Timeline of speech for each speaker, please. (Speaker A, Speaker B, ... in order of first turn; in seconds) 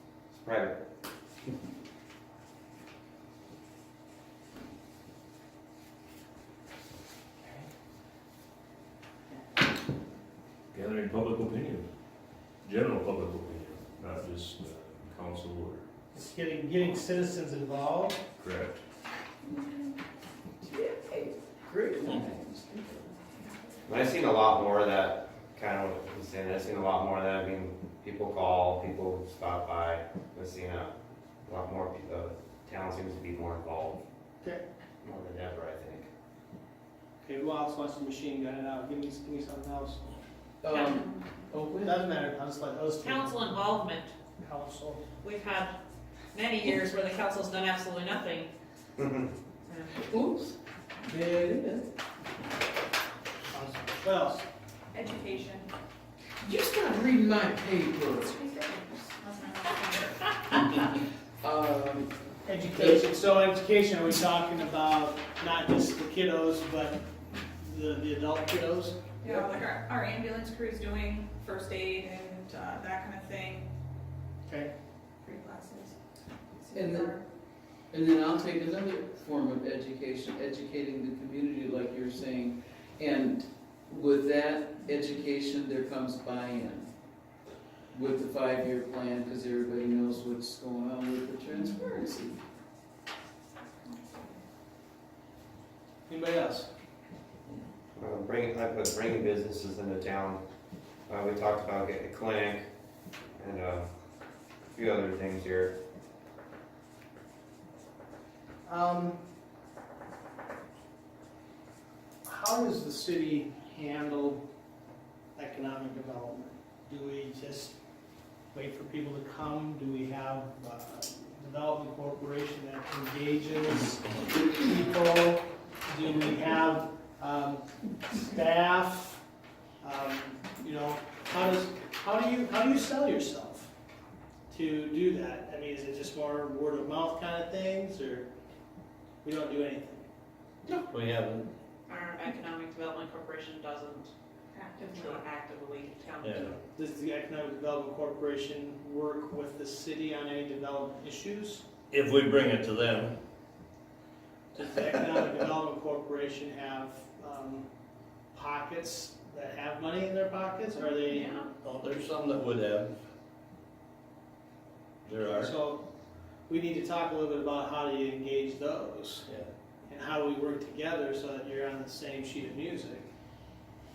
Speaker A: 0.3-0.8, 23.9-30.9, 31.4-34.0, 35.0-36.1, 49.0-49.3, 98.0-100.4, 101.1-102.7, 103.4-103.9, 104.7-105.7
Speaker B: 7.4-7.7, 16.1-18.2, 37.2-40.1, 41.8-43.4, 44.4-45.0, 53.5-54.5, 62.5-69.0, 96.1-96.7, 108.7-109.2, 112.2-114.4, 115.4-117.8, 118.5-129.2, 129.8-133.7, 134.5-138.3, 139.2-140.1, 146.8-151.7, 154.5-157.7, 158.3-161.3, 165.2-165.8, 166.5-169.3, 169.9-173.1
Speaker C: 10.7-11.9, 12.6-15.8, 18.4-18.8
Speaker D: 20.6-23.1, 40.6-42.0, 50.0-50.5, 51.1-51.9, 56.4-58.4, 60.5-62.1, 76.7-77.2, 77.9-86.9, 87.9-92.4
Speaker E: 40.7-41.0, 43.0-44.1, 45.2-45.7, 46.3-48.5, 49.7-50.0, 141.9-144.1, 144.8-146.6, 161.0-161.5
Speaker F: 54.9-55.7, 58.4-60.0, 69.2-73.7, 75.2-76.0, 76.6-77.2, 93.8-94.4, 144.5-145.2
Speaker G: 140.9-141.5, 146.2-146.6, 151.9-153.1, 161.6-162.9, 165.1-165.5